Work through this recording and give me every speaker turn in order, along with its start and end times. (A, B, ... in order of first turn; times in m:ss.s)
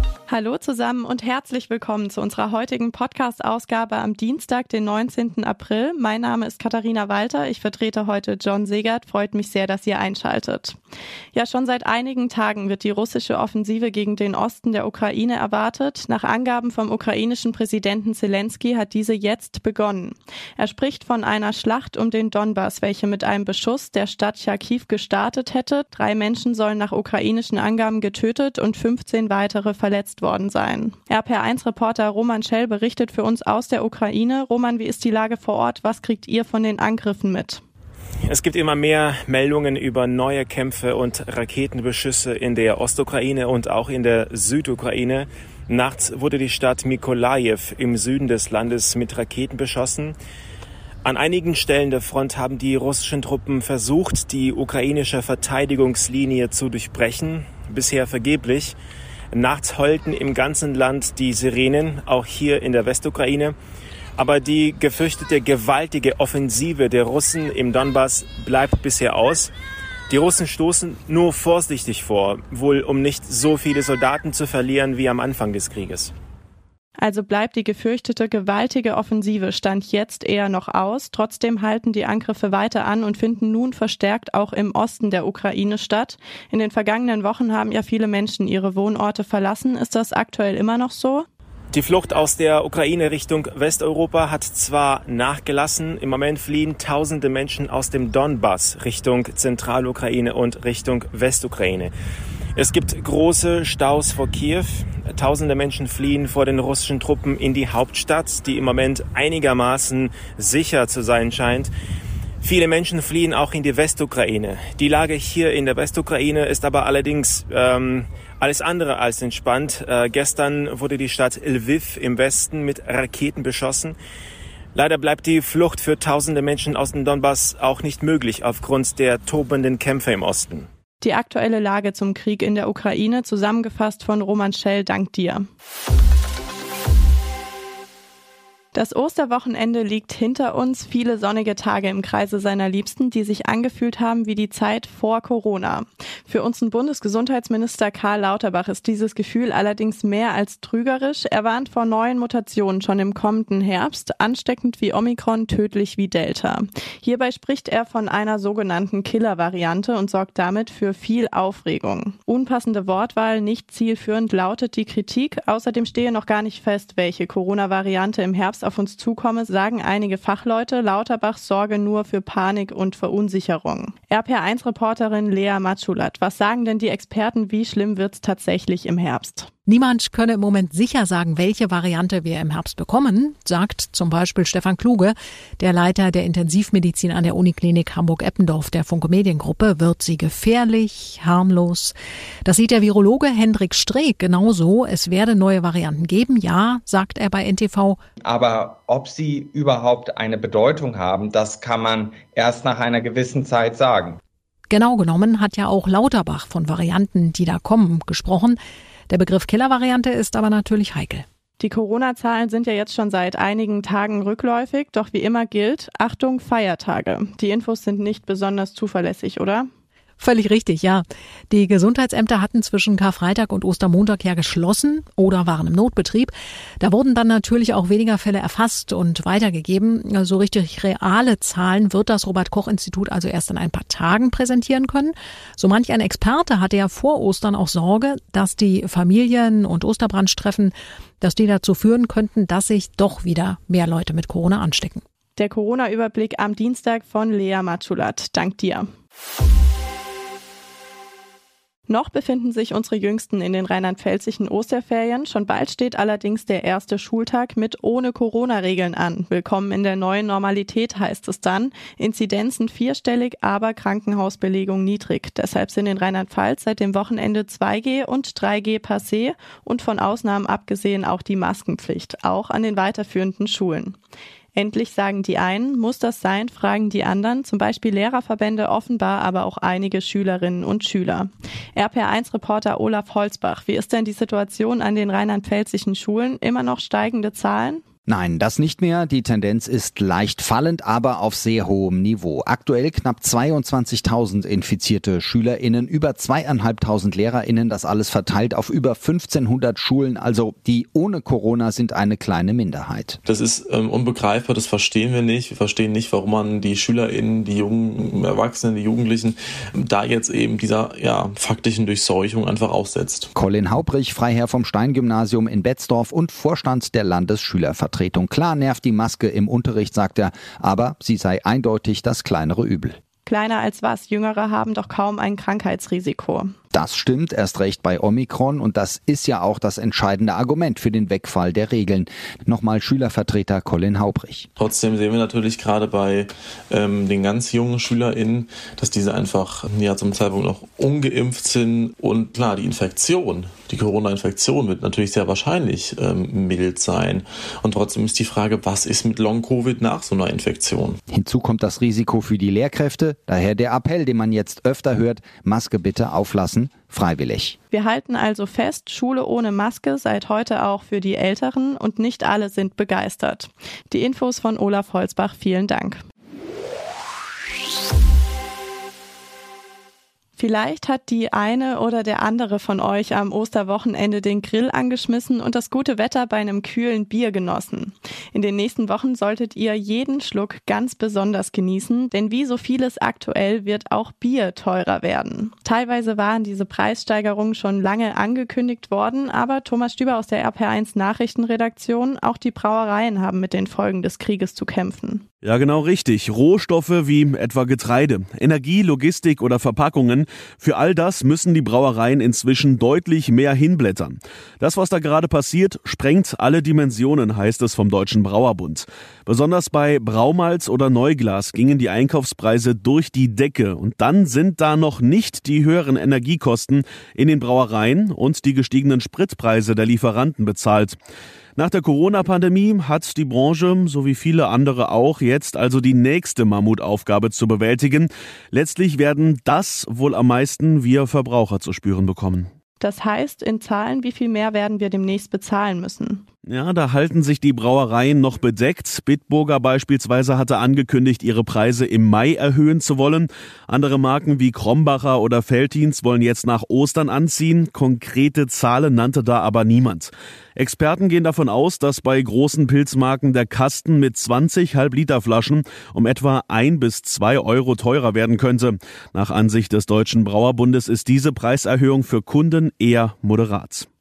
0:00.3-0:10.8 A
0:11.3-0:37.6 A
0:38.3-0:50.2 B
0:51.0-0:58.8 B
0:59.3-1:03.6 B
1:04.2-1:09.5 B
1:10.1-1:16.1 B
1:17.0-1:31.3 A
1:31.7-1:41.9 B
1:42.6-1:51.7 B
1:52.4-2:04.0 B
2:04.7-2:10.7 B
2:11.0-2:15.4 A
2:18.7-2:59.5 A
2:59.7-3:18.0 C
3:18.2-3:24.2 D
3:24.7-3:28.6 C
3:29.1-3:31.2 C
3:31.6-3:39.7 A
3:40.2-4:05.0 C
4:05.4-4:08.9 A
4:11.9-4:34.0 A
4:34.6-4:47.8 A
4:48.1-5:03.2 E
5:03.2-5:13.3 F
5:13.3-5:23.0 E
5:23.2-5:26.5 A
5:26.7-5:34.5 E
5:34.6-5:51.0 F
5:51.1-5:57.6 E
5:57.7-6:06.0 A
6:10.4-6:35.2 A
6:35.4-7:01.0 G
7:01.6-7:12.5 G
7:12.8-7:16.2 A
7:16.4-7:43.8 G